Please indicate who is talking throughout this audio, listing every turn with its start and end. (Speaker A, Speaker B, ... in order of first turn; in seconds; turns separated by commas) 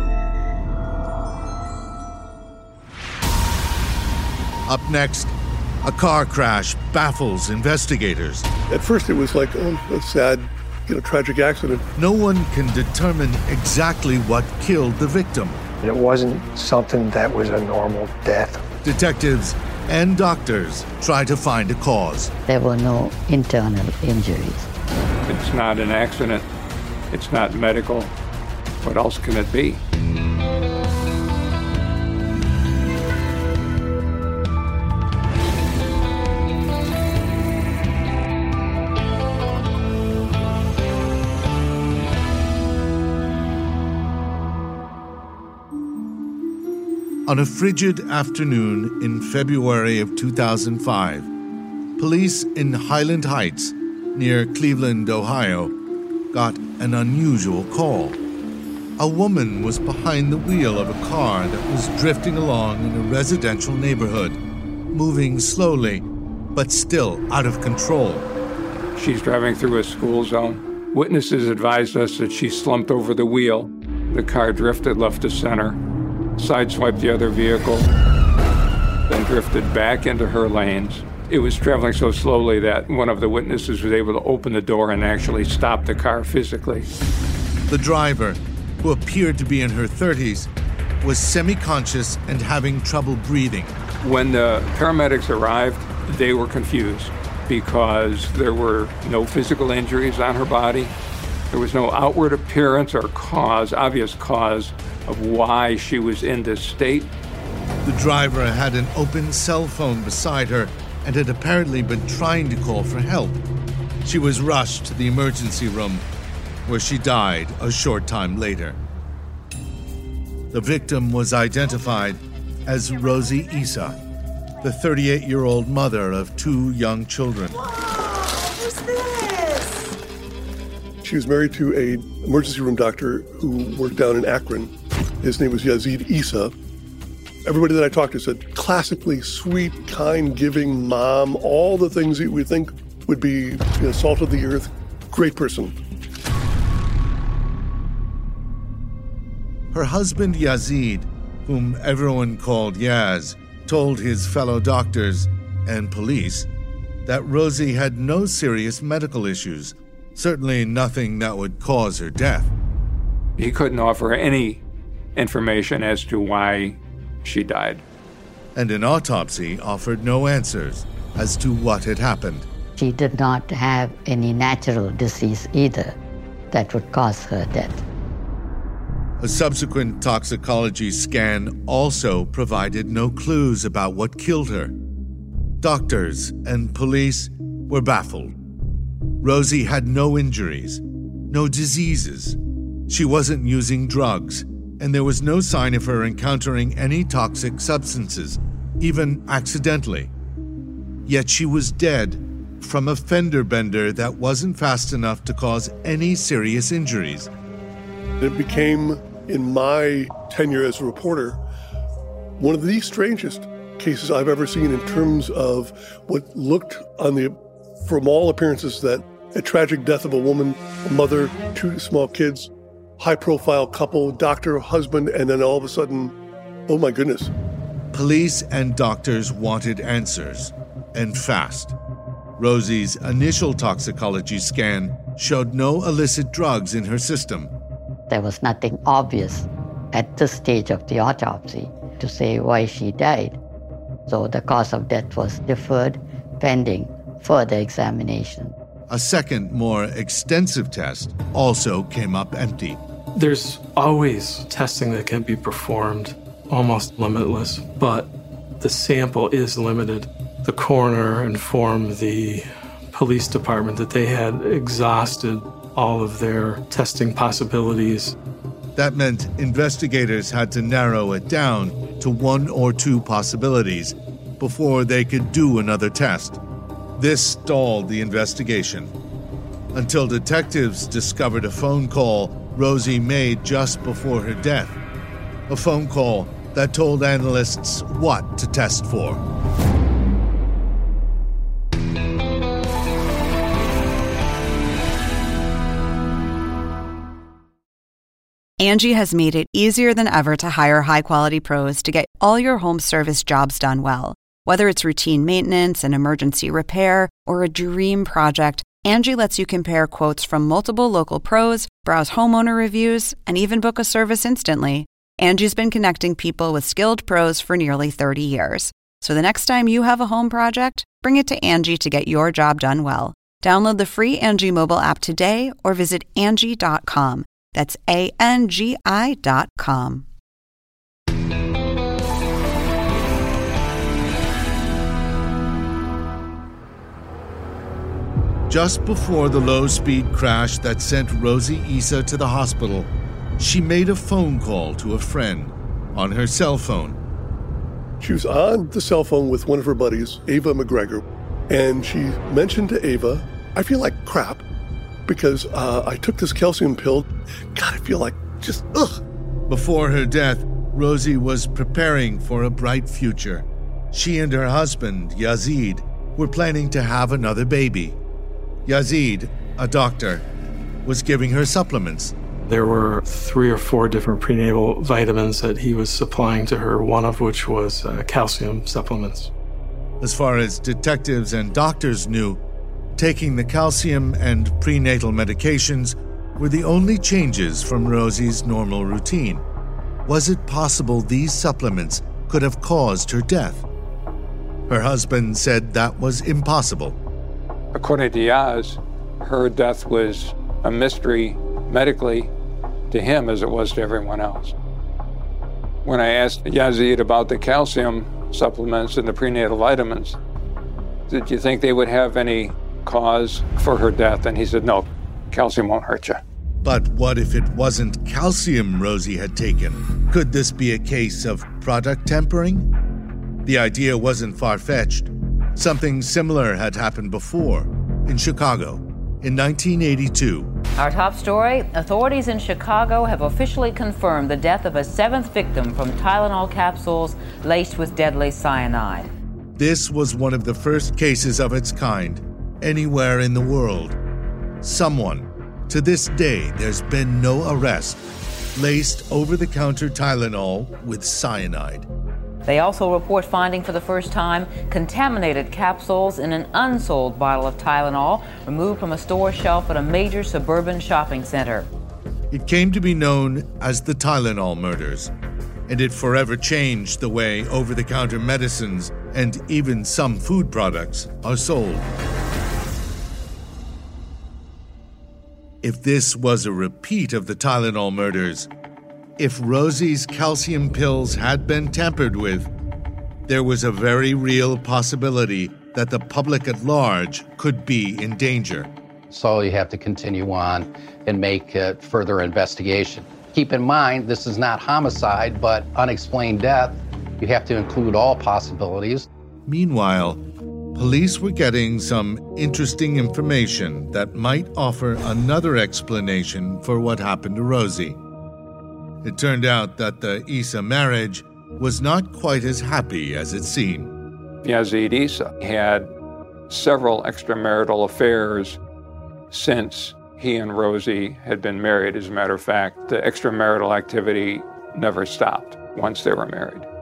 Speaker A: 4.7-8.5, Speaker B: 8.7-11.9, Speaker A: 11.9-15.7, Speaker C: 15.8-18.6, Speaker A: 18.8-22.3, Speaker D: 22.5-24.7, Speaker E: 25.3-26.4, Speaker E: 27.1-28.1, Speaker E: 28.8-29.8, Speaker A: 47.2-51.3, Speaker A: 52.0-55.7, Speaker A: 56.3-58.2, Speaker A: 59.0-64.4, Speaker A: 64.9-68.3, Speaker E: 68.9-75.8, Speaker E: 76.4-77.9, Speaker E: 79.1-86.9, Speaker A: 87.7-90.5, Speaker A: 91.0-93.8, Speaker E: 94.0-100.9, Speaker E: 101.5-107.1, Speaker A: 107.8-113.4, Speaker A: 114.0-116.0, Speaker A: 116.7-118.8, Speaker A: 120.5-124.0, Speaker A: 124.6-127.6, Speaker F: 127.8-129.9, Speaker B: 131.0-136.5, Speaker B: 137.4-145.8, Speaker A: 149.7-156.5, Speaker A: 157.1-162.5, Speaker E: 163.4-164.6, Speaker E: 165.2-167.8, Speaker A: 168.5-172.5, Speaker D: 172.8-175.9, Speaker D: 176.5-177.8, Speaker A: 179.2-184.7, Speaker A: 185.6-188.3, Speaker A: 189.2-200.1, Speaker A: 201.1-207.3, Speaker B: 208.2-211.4, Speaker B: 212.4-226.1, Speaker B: 226.7-227.3, Speaker A: 227.9-231.8, Speaker A: 232.4-237.5, Speaker D: 238.1-243.4, Speaker D: 244.1-248.5, Speaker A: 248.9-252.8, Speaker G: 253.2-268.1, Speaker A: 268.8-276.4, Speaker A: 276.9-278.9, Speaker A: 279.7-284.8, Speaker A: 285.5-289.2, Speaker H: 298.6-330.1, Speaker A: 338.5-347.0, Speaker B: 348.0-354.4, Speaker B: 355.1-359.0, Speaker A: 359.5-368.0, Speaker A: 368.6-370.2, Speaker A: 370.8-372.1, Speaker G: 372.5-379.3, Speaker A: 380.0-382.4, Speaker A: 382.9-389.4, Speaker A: 390.1-393.6, Speaker A: 394.7-397.0, Speaker E: 397.7-402.3, Speaker E: 402.9-404.6, Speaker E: 405.8-410.2, Speaker E: 411.1-416.2, Speaker A: 416.6-422.7, Speaker A: 423.4-430.5, Speaker I: 430.8-439.1, Speaker A: 439.6-444.0, Speaker A: 444.6-448.0, Speaker A: 448.5-451.9, Speaker I: 452.4-461.7, Speaker A: 462.3-465.1, Speaker A: 465.7-471.9, Speaker A: 475.6-478.5, Speaker A: 479.2-482.5, Speaker A: 483.3-488.7, Speaker J: 489.1-499.1, Speaker A: 499.4-500.2, Speaker A: 500.7-508.0, Speaker A: 509.0-513.9, Speaker E: 514.4-515.9, Speaker E: 516.5-518.6, Speaker E: 519.3-526.7